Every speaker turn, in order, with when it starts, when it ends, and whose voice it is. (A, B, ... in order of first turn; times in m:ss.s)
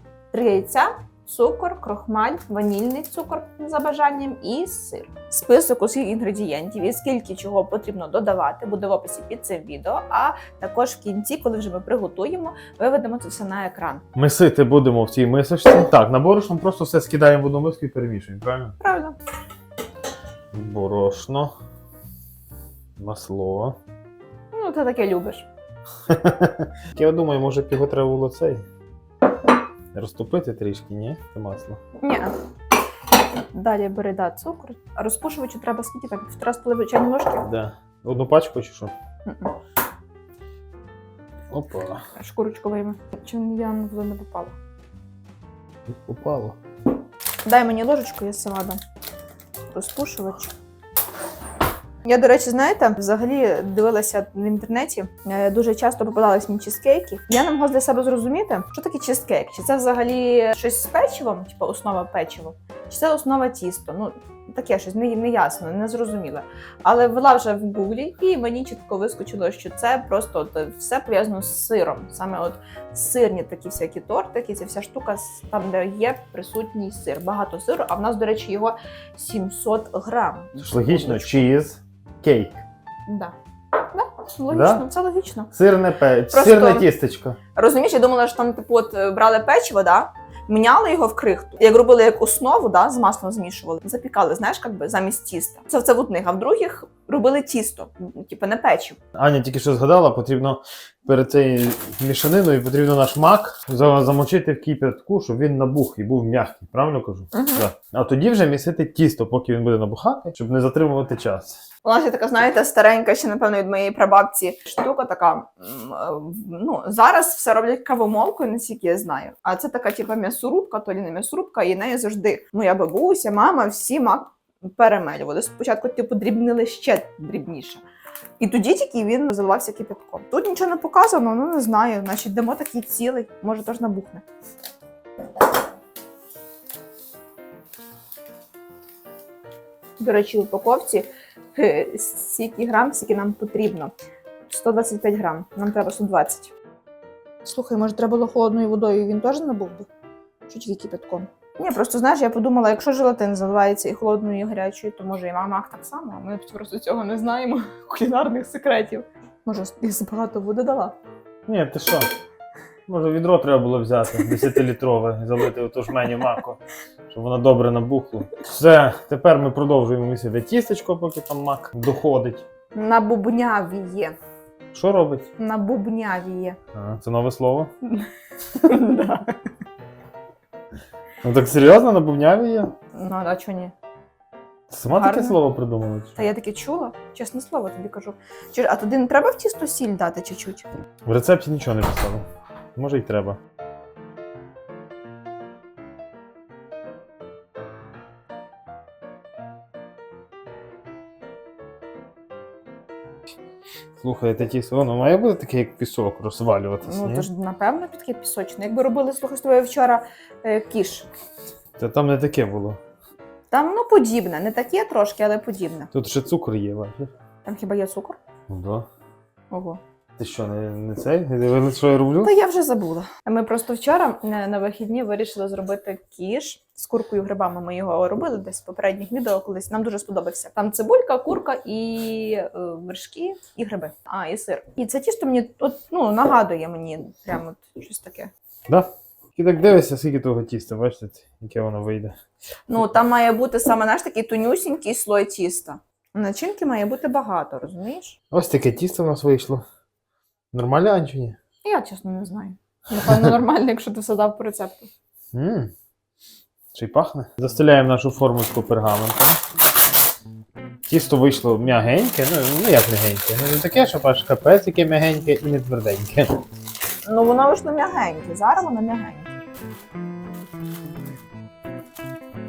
0:00.3-0:14.0 A
0:14.2-0:18.8 B
0:18.8-0:19.2 A
0:20.5-0:21.5 B
0:23.0-0:23.8 B
0:24.5-0:25.5 A
0:26.1-0:28.6 B
0:29.9-0:31.8 B
0:32.0-0:32.4 A
0:33.5-0:37.5 A
0:37.4-0:39.0 B
0:39.2-0:39.5 A
0:41.5-0:42.0 B
0:42.2-0:44.6 A
0:45.9-0:46.6 B
0:47.4-0:48.8 A
0:49.7-0:50.5 A
0:52.0-1:21.4 A
1:20.6-1:22.6 B
1:23.1-1:25.5 A
1:24.5-1:24.9 B
1:25.5-1:27.4 B
1:26.3-1:26.9 A
1:27.6-1:39.0 A
1:39.2-1:51.6 B
1:47.3-1:47.6 A
1:51.8-2:07.8 A
2:08.4-2:14.2 A
2:20.0-2:23.9 A
2:24.5-2:26.5 A
2:27.4-2:29.9 A
2:30.5-2:41.0 A
2:41.5-2:42.1 B
2:42.9-2:52.4 B
2:52.8-2:54.2 A
2:54.7-2:55.3 B
2:55.4-2:56.6 A
2:56.8-2:57.7 B
2:57.8-2:59.3 A
3:01.2-3:02.7 B
3:02.9-3:03.7 A
3:04.7-3:06.2 B
3:04.9-3:05.4 A
3:06.2-3:10.7 A
3:11.1-3:13.4 B
3:24.0-3:27.3 B
3:26.8-3:31.1 A
3:31.8-3:32.8 B
3:33.5-3:35.9 A
3:35.9-3:37.1 B
3:37.4-3:38.2 A
3:38.5-3:38.9 B
3:39.5-3:39.8 A
3:40.2-3:42.3 B
3:42.2-3:58.3 A
3:58.7-4:02.2 B
4:02.7-4:08.2 A
4:08.3-4:09.6 B
4:10.5-4:11.4 B
4:11.6-4:14.9 A
4:15.3-4:15.7 B
4:16.7-4:19.4 B
4:20.9-4:26.4 B
4:27.0-4:29.3 A